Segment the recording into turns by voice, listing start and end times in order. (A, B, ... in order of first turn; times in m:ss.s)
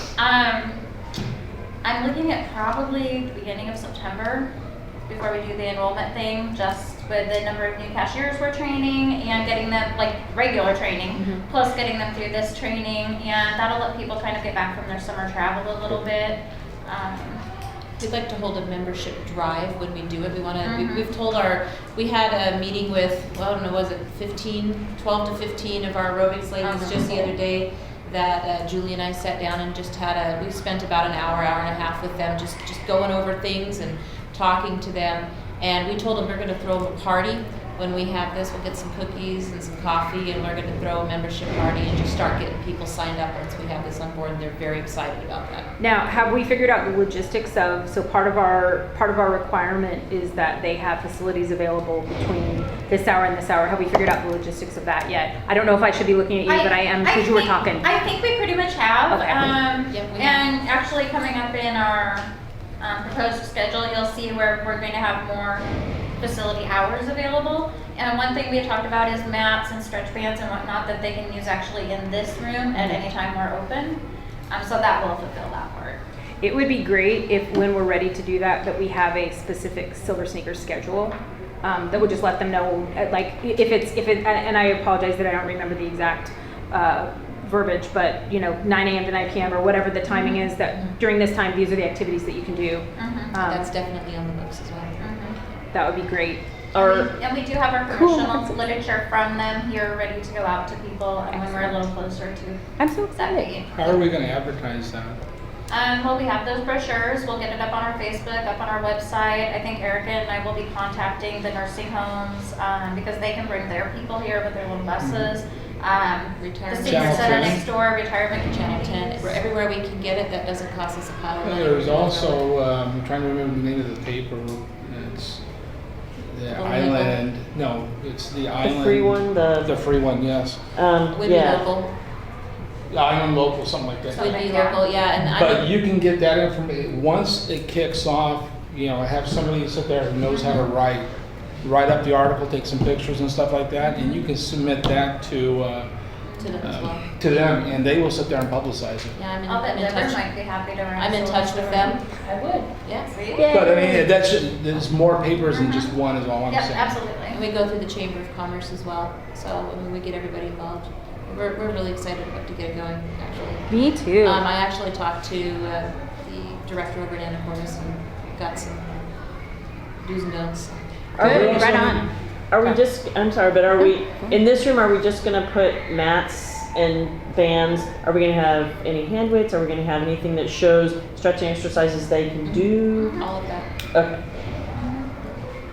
0:00.2-0:00.8 A
0:01.8-0:04.5 A
0:05.1-0:17.4 A
0:18.0-0:45.7 B
0:20.6-0:21.1 A
0:26.6-0:27.3 A
0:45.8-0:57.9 C
0:56.5-1:05.7 A
0:59.1-0:59.5 C
0:59.9-1:00.5 B
1:06.2-1:16.0 A
1:16.4-1:33.7 C
1:30.1-1:30.9 A
1:33.0-1:33.3 A
1:33.4-1:35.0 B
1:35.0-1:35.4 A
1:35.7-1:36.4 C
1:36.7-1:37.1 D
1:36.7-1:44.0 A
1:37.9-1:38.5 C
1:41.3-1:41.8 C
1:42.8-1:43.5 C
1:43.7-1:45.2 E
1:45.7-1:59.4 A
1:55.0-1:55.3 E
1:56.4-1:57.6 B
1:56.8-1:57.6 E
1:58.5-2:02.4 B
2:01.4-2:05.5 E
2:06.2-2:10.7 E
2:06.5-2:07.2 B
2:08.6-2:09.8 D
2:10.7-2:11.7 D
2:11.1-2:12.0 B
2:12.9-2:14.3 E
2:14.1-2:14.8 A
2:14.1-2:15.7 B
2:15.2-2:25.9 E
2:20.3-2:20.7 A
2:23.8-2:24.2 A
2:26.2-2:26.7 A
2:26.4-2:27.1 B
2:26.6-2:29.1 E
2:29.1-2:30.2 B
2:29.5-2:32.0 A
2:31.0-2:32.0 B
2:31.9-2:32.7 C
2:32.8-2:33.2 B
2:33.1-2:33.5 A
2:33.4-2:34.1 C
2:33.5-2:37.1 E
2:35.5-2:35.9 A
2:36.5-2:37.4 A
2:37.3-2:49.0 B
2:43.7-2:44.4 C
2:50.0-2:51.4 B
2:51.1-2:51.5 D
2:51.2-2:52.1 C
2:51.2-2:52.1 E
2:52.5-3:03.2 D
2:53.7-2:54.4 C
3:02.4-3:03.7 B
3:03.0-3:03.3 A
3:03.9-3:04.2 D
3:04.8-3:05.1 A